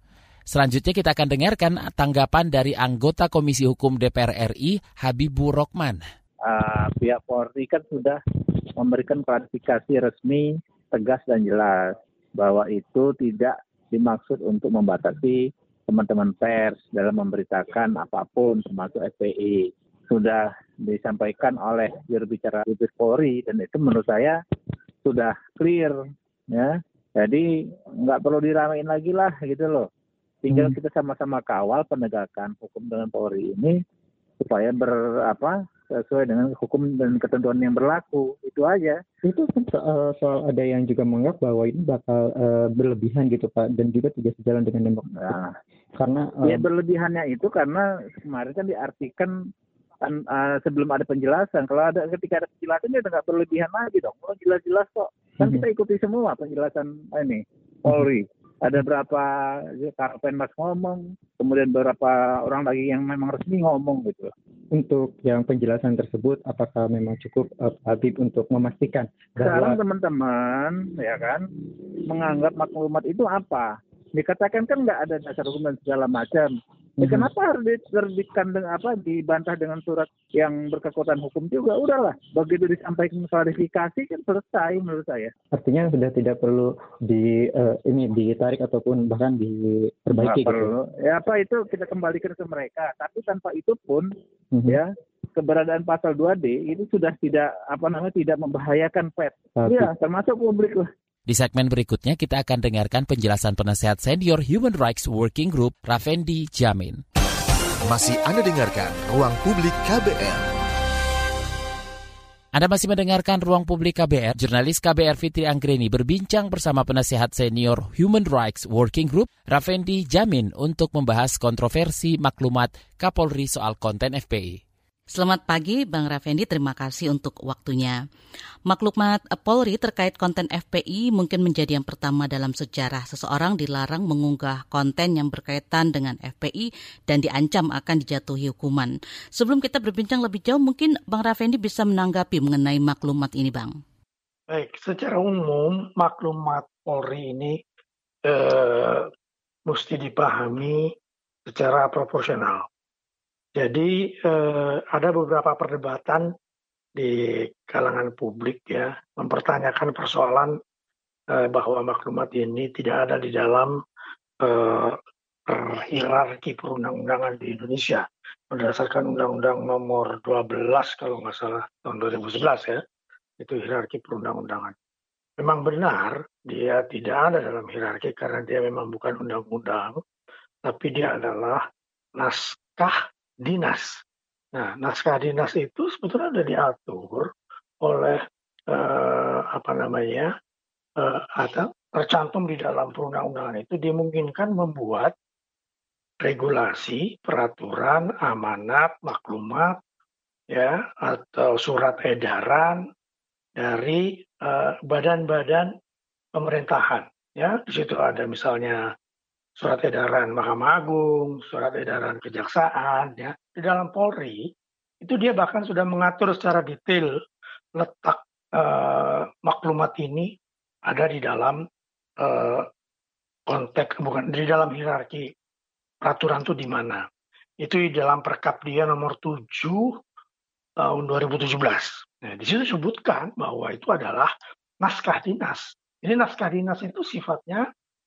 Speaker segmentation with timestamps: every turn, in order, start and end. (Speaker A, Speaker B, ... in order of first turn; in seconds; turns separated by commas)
Speaker A: 0.5-6.0, Speaker B: 6.4-8.2, Speaker B: 8.8-24.4, Speaker B: 25.1-25.9, Speaker B: 26.5-27.4, Speaker B: 28.0-29.9, Speaker B: 30.4-33.8, Speaker B: 34.4-39.0, Speaker C: 39.2-45.2, Speaker C: 46.0-46.7, Speaker B: 46.4-49.4, Speaker B: 50.0-59.3, Speaker B: 59.8-64.3, Speaker C: 64.7-69.8, Speaker B: 69.4-71.5, Speaker B: 72.1-85.3, Speaker C: 77.0-77.3, Speaker C: 85.5-90.8, Speaker B: 90.2-94.1, Speaker B: 94.7-100.9, Speaker C: 99.6-99.9, Speaker A: 101.3-107.0, Speaker D: 107.9-110.5, Speaker A: 112.5-124.6, Speaker E: 125.1-128.0, Speaker E: 128.7-143.8, Speaker F: 144.5-147.6, Speaker F: 148.3-149.1, Speaker F: 149.7-150.9, Speaker F: 151.5-152.7, Speaker F: 153.6-156.3, Speaker F: 157.0-160.5, Speaker F: 161.3-163.7, Speaker F: 164.4-165.0, Speaker F: 165.5-172.8, Speaker F: 173.4-174.7, Speaker F: 175.4-180.0, Speaker F: 180.7-181.6, Speaker F: 182.2-184.0, Speaker F: 184.6-187.3, Speaker F: 187.8-190.3, Speaker F: 191.0-195.1, Speaker F: 196.2-199.8, Speaker F: 200.5-202.8, Speaker F: 203.6-205.7, Speaker F: 206.4-208.8, Speaker F: 209.6-214.5, Speaker F: 215.0-217.1, Speaker F: 217.8-220.3, Speaker F: 220.9-221.6, Speaker F: 222.2-222.7, Speaker F: 223.5-225.3, Speaker F: 226.0-227.1, Speaker F: 227.6-230.0, Speaker F: 230.8-234.3, Speaker F: 234.8-237.7